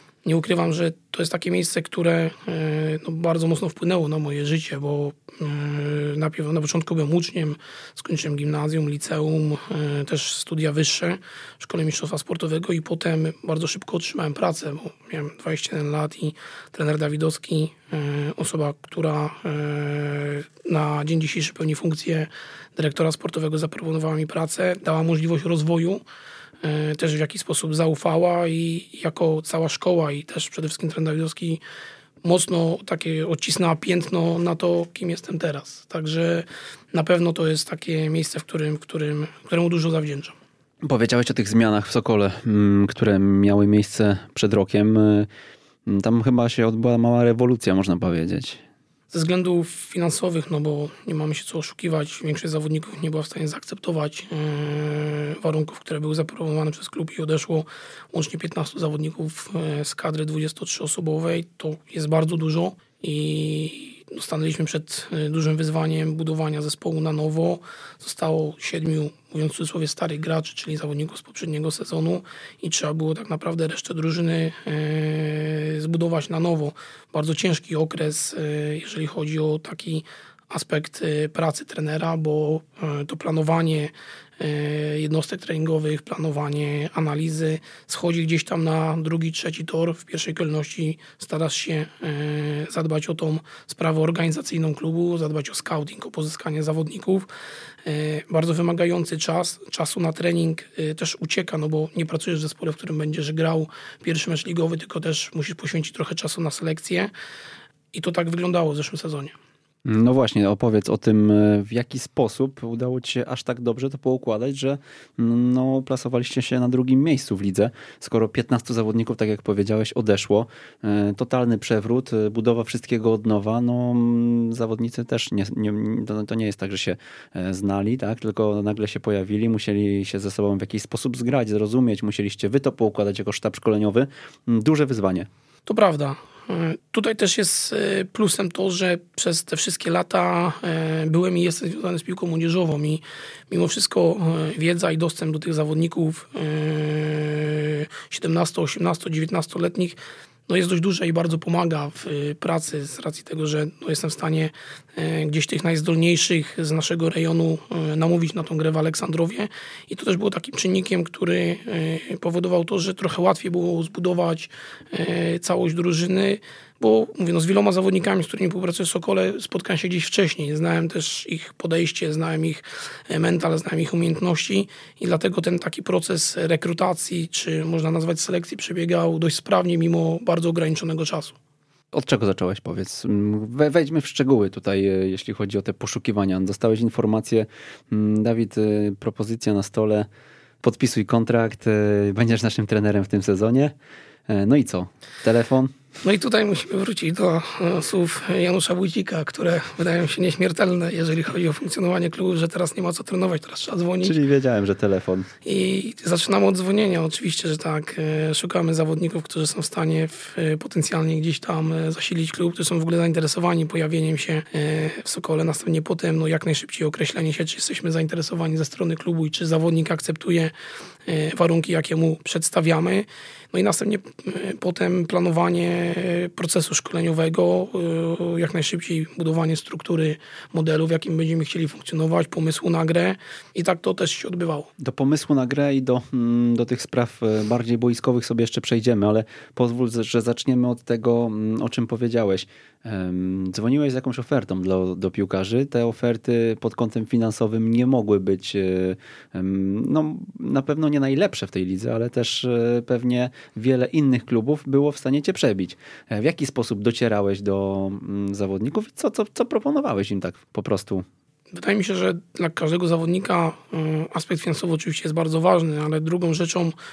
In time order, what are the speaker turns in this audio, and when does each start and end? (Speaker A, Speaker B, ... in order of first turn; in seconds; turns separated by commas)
Speaker A: 0.2-26.0, Speaker A: 26.6-31.6, Speaker A: 32.2-40.3, Speaker B: 40.8-45.3, Speaker B: 45.9-48.6, Speaker A: 49.1-97.3, Speaker A: 97.8-107.1, Speaker A: 107.9-109.3, Speaker B: 109.8-135.3, Speaker A: 135.7-181.3, Speaker B: 181.9-190.1, Speaker B: 190.6-193.7, Speaker B: 194.3-195.8, Speaker A: 196.0-204.1, Speaker B: 204.0-205.3, Speaker A: 205.4-220.5, Speaker A: 221.1-234.7, Speaker B: 234.8-261.0, Speaker A: 261.5-266.7